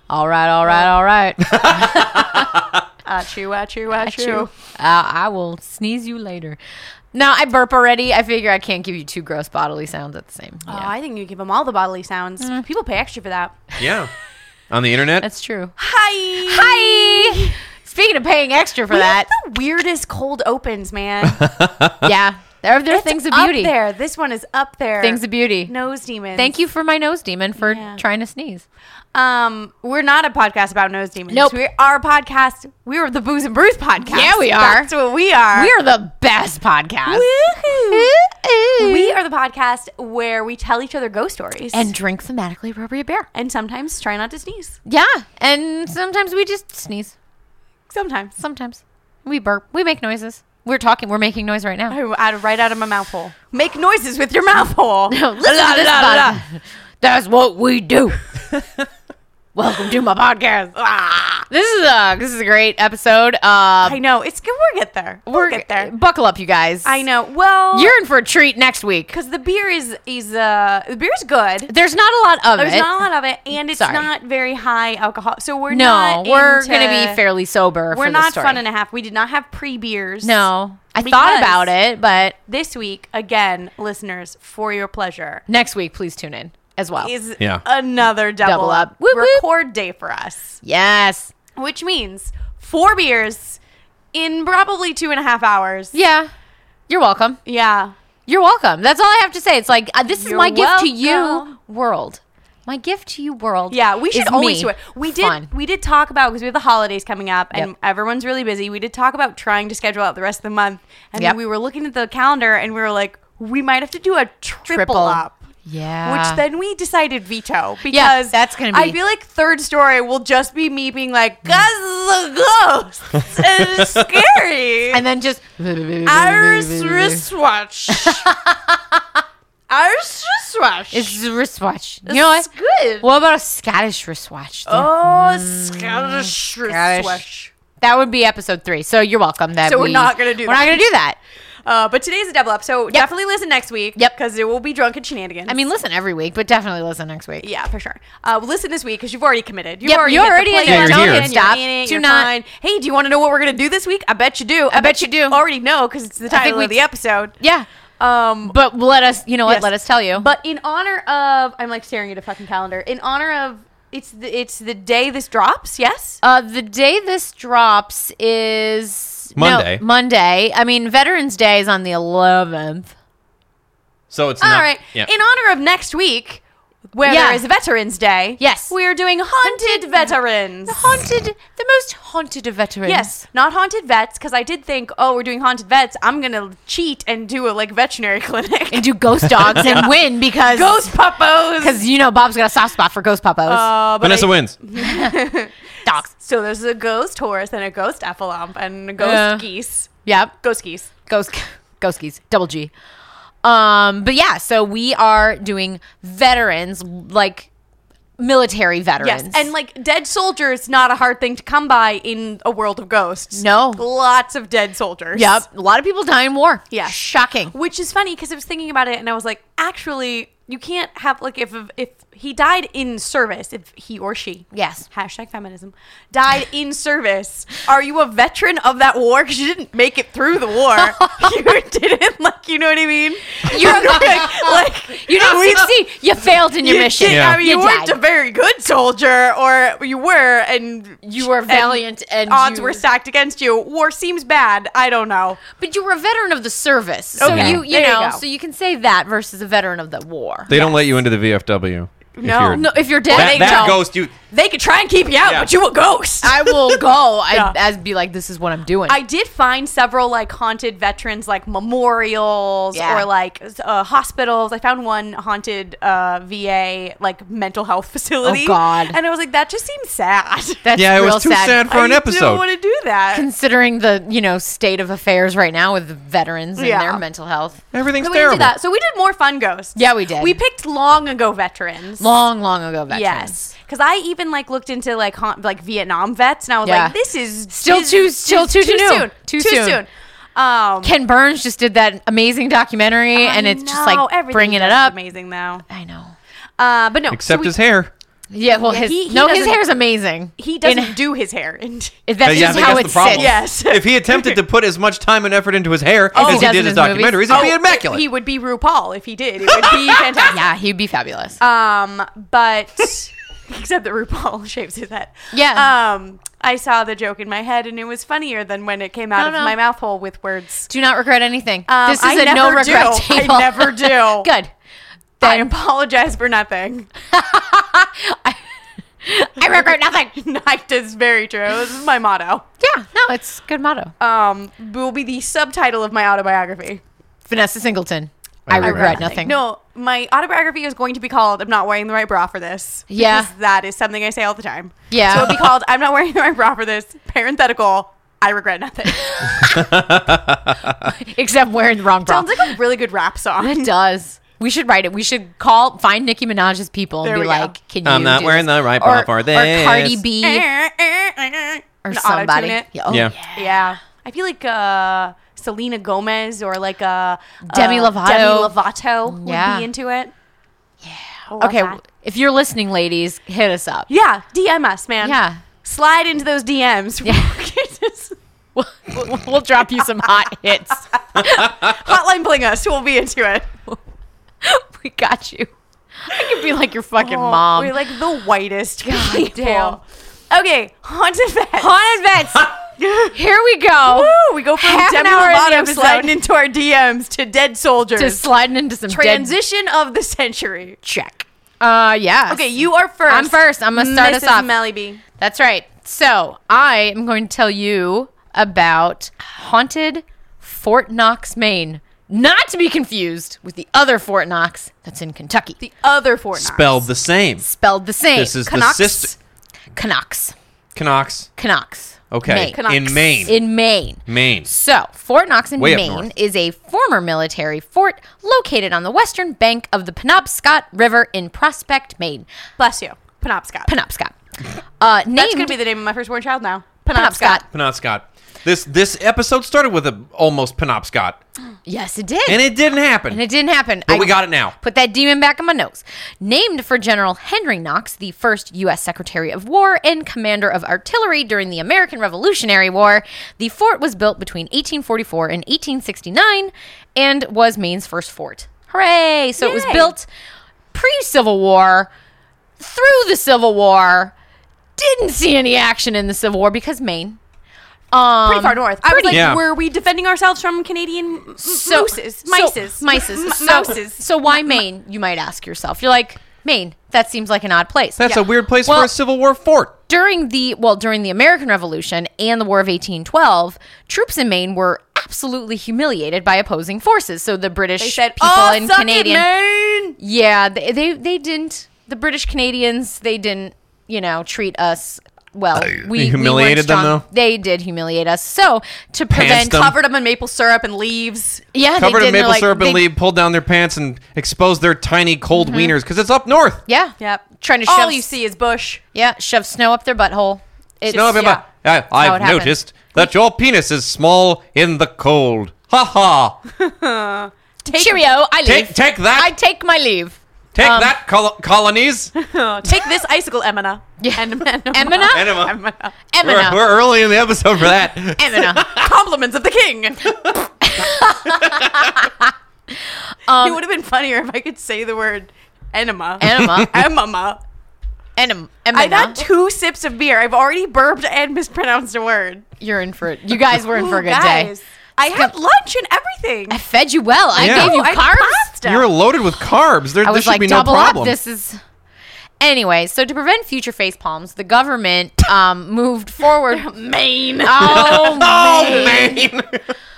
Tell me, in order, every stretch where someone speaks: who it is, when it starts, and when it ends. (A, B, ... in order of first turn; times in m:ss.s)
0:00.1-0:02.6 A
0:01.5-0:02.6 B
0:03.0-0:04.5 C
0:04.0-0:06.6 A
0:07.1-0:10.9 A
0:10.7-0:13.7 C
0:13.8-0:14.1 B
0:14.7-0:15.2 B
0:15.2-0:15.7 A
0:15.8-0:17.6 C
0:16.4-0:19.3 A
0:18.9-0:21.4 C
0:21.4-0:22.0 B
0:22.0-0:23.7 A
0:22.9-0:26.6 C
0:25.0-0:25.7 A
0:26.4-0:28.6 A
0:27.6-0:28.0 C
0:29.1-0:35.7 C
0:34.0-0:34.9 A
0:35.5-0:39.1 A
0:37.1-0:38.1 C
0:38.8-0:41.9 C
0:41.7-0:43.2 A
0:43.3-0:44.8 C
0:44.9-0:47.1 A
0:47.9-0:48.3 C
0:48.4-0:52.0 A
0:51.9-0:56.4 C
0:55.1-0:58.2 A
0:59.5-1:00.7 A
1:00.8-1:01.5 C
1:01.5-1:04.0 A
1:03.8-1:05.9 C
1:05.3-1:07.0 A
1:06.8-1:07.9 C
1:07.7-1:09.1 A
1:09.1-1:11.7 C
1:11.7-1:12.9 A
1:12.6-1:17.2 C
1:13.7-1:14.0 A
1:15.7-1:18.6 A
1:17.9-1:20.5 C
1:20.2-1:22.4 A
1:21.0-1:21.7 C
1:22.5-1:25.4 C
1:25.5-1:27.1 A
1:27.0-1:30.6 C
1:28.4-1:29.4 A
1:30.6-1:31.3 A
1:31.6-1:33.6 C
1:34.1-1:35.9 C
1:35.9-1:36.3 A
1:36.9-1:37.4 A
1:37.4-1:37.9 C
1:38.3-1:45.5 A
1:40.2-1:41.5 C
1:43.7-1:55.4 C
1:54.7-1:56.4 A
1:56.0-2:05.0 C
1:57.9-1:59.0 A
2:03.8-2:04.0 B
2:04.9-2:07.2 A
2:06.0-2:08.3 C
2:07.9-2:09.0 A
2:09.7-2:11.2 C
2:10.9-2:12.5 A
2:12.0-2:13.0 C
2:13.0-2:17.2 A
2:14.7-2:17.5 C
2:17.8-2:21.2 A
2:19.6-2:20.8 C
2:21.6-2:25.6 C
2:25.5-2:27.5 A
2:27.4-2:37.3 C
2:29.8-2:32.3 A
2:30.6-2:31.3 B
2:34.7-2:35.4 A
2:36.3-2:36.8 A
2:37.4-2:37.6 A
2:38.0-2:38.6 C
2:38.5-2:40.3 A
2:39.4-2:46.2 C
2:46.2-2:52.9 A
2:49.4-2:49.8 B
2:54.1-2:55.1 B
2:54.4-2:56.4 C
2:56.9-3:00.8 C
2:57.0-2:57.4 A
2:58.4-2:58.7 A
2:59.4-3:00.1 A
3:00.6-3:03.2 A
3:02.8-3:11.8 C
3:08.7-3:10.8 A
3:11.6-3:13.7 A
3:13.5-3:19.9 C
3:14.0-3:14.5 B
3:14.7-3:15.2 A
3:19.0-3:19.4 A
3:20.0-3:20.3 A
3:20.4-3:20.9 C
3:21.1-3:22.7 A
3:23.4-3:27.5 A
3:28.2-3:29.5 A
3:29.0-3:35.4 C
3:33.3-3:33.8 A
3:35.1-3:37.5 A
3:37.5-3:55.7 C
3:44.5-3:44.8 A
3:53.4-3:58.0 A
3:56.6-4:05.4 C
3:57.1-3:57.4 B
4:01.0-4:02.8 A
4:05.5-4:10.8 A
4:07.2-4:08.2 C
4:07.2-4:07.6 B
4:10.5-4:14.1 B
4:12.2-4:17.5 C
4:12.5-4:13.8 A
4:15.2-4:15.5 B
4:16.2-4:19.0 A
4:18.9-4:30.6 C
4:22.7-4:23.0 A
4:28.2-4:29.0 A
4:30.6-4:31.6 A
4:30.8-4:32.4 B
4:31.7-4:33.2 C
4:33.1-4:37.6 A
4:36.6-4:37.0 C
4:37.7-4:38.5 B
4:38.0-4:42.1 C
4:39.8-4:40.4 A
4:42.0-4:43.4 A
4:42.9-4:51.0 C
4:46.6-4:46.9 A
4:47.5-4:49.8 A
4:50.8-4:55.0 A
4:53.1-4:55.6 C
4:55.7-4:56.1 A
4:56.6-4:57.5 C
4:57.1-4:57.9 B
4:58.3-5:01.0 A
4:58.6-4:59.6 C
5:00.4-5:04.4 C
5:02.1-5:03.3 A
5:02.2-5:08.0 B
5:06.1-5:06.6 C
5:06.1-5:07.5 A
5:07.3-5:10.4 C
5:09.5-5:10.0 B
5:10.3-5:11.4 A
5:11.4-5:20.7 C
5:15.3-5:15.7 A
5:19.1-5:19.5 A
5:20.7-5:24.5 A
5:21.7-5:24.3 C
5:25.2-5:25.5 A
5:25.2-5:26.9 C
5:27.1-5:28.4 A
5:29.0-5:30.1 A
5:30.1-5:32.4 C
5:32.6-5:33.9 A
5:34.0-5:36.8 C
5:37.3-5:39.4 A
5:38.5-5:39.1 B
5:38.5-5:49.3 C
5:42.9-5:43.3 A
5:44.9-5:45.5 A
5:48.9-5:49.6 A
5:49.4-5:50.9 B
5:50.8-5:52.5 A
5:52.0-5:53.7 C
5:53.4-6:00.5 A
5:57.0-5:57.5 C
5:57.8-6:00.0 B
6:00.2-6:10.1 C
6:01.8-6:03.7 A
6:02.9-6:03.1 B
6:07.5-6:08.5 A
6:09.1-6:09.6 A
6:10.8-6:13.9 A
6:11.3-6:11.8 C
6:13.9-6:18.1 C
6:15.0-6:15.4 A
6:17.0-6:17.3 A
6:18.6-6:21.4 A
6:21.1-6:23.5 C
6:21.2-6:21.7 B
6:24.4-6:25.5 A
6:26.1-6:27.7 A
6:26.2-6:26.4 C
6:27.0-6:31.8 C
6:28.8-6:29.8 A
6:31.6-6:32.5 A
6:32.8-6:33.2 C
6:33.1-6:36.2 A
6:33.8-6:38.2 C
6:38.0-6:39.3 A
6:38.9-6:40.8 C
6:40.8-6:42.5 A
6:42.3-6:45.0 C
6:43.1-6:44.5 A
6:45.2-6:55.6 A
6:55.6-6:56.9 C
6:56.4-6:57.4 B
6:57.4-6:58.4 A
6:58.1-6:59.1 B
6:58.4-6:59.2 C
6:59.7-7:00.3 A
7:00.7-7:01.3 B
7:01.4-7:12.2 A
7:02.1-7:03.4 B
7:02.5-7:03.3 C
7:04.0-7:04.5 B
7:05.6-7:06.1 B
7:12.6-7:13.7 C
7:13.6-7:14.1 A
7:14.8-7:15.6 A
7:15.2-7:17.4 C
7:16.9-7:17.4 A
7:17.5-7:21.2 B
7:21.7-7:22.5 A
7:22.3-7:23.2 B
7:23.1-7:40.1 A
7:23.9-7:24.5 B
7:39.4-7:39.9 C
7:40.7-7:41.9 A
7:42.6-7:44.1 A
7:44.8-7:47.2 A
7:47.9-7:49.3 A
7:48.2-7:54.6 C
7:49.1-7:49.4 B
7:51.4-7:58.1 A
7:58.0-7:59.7 B
7:58.6-7:58.9 A
7:59.9-8:09.3 A
8:07.8-8:10.0 C
8:10.0-8:19.6 A
8:15.6-8:17.0 B
8:19.1-8:19.8 B
8:19.3-8:21.4 C
8:21.5-8:22.8 A
8:21.8-8:26.6 B
8:25.3-8:25.7 A
8:26.7-8:28.1 A
8:27.0-8:28.8 C
8:28.9-8:31.4 A
8:30.9-8:31.4 C
8:30.9-8:36.4 B
8:32.0-8:33.1 A
8:36.6-8:38.1 C
8:37.7-8:40.9 A
8:38.4-8:39.3 B
8:40.5-8:42.1 B
8:42.1-8:45.9 C
8:44.0-8:45.4 A
8:45.1-8:45.6 B
8:46.1-8:46.6 A
8:46.2-8:48.9 B
8:48.2-8:48.6 A
8:48.6-8:50.2 C
8:50.6-8:52.3 A
8:51.4-8:51.9 B
8:53.2-8:53.6 A
8:53.4-8:57.4 C
8:56.2-8:56.7 A
8:56.4-8:56.7 B
8:58.2-8:59.2 A
8:58.7-9:02.4 C
9:02.6-9:04.5 A
9:03.6-9:06.6 C
9:06.5-9:08.5 A
9:07.3-9:08.9 C
9:07.4-9:07.8 B
9:08.6-9:11.2 B
9:10.0-9:11.6 A
9:12.4-9:16.6 A
9:16.5-9:19.0 C
9:17.4-9:19.3 A
9:17.6-9:19.7 B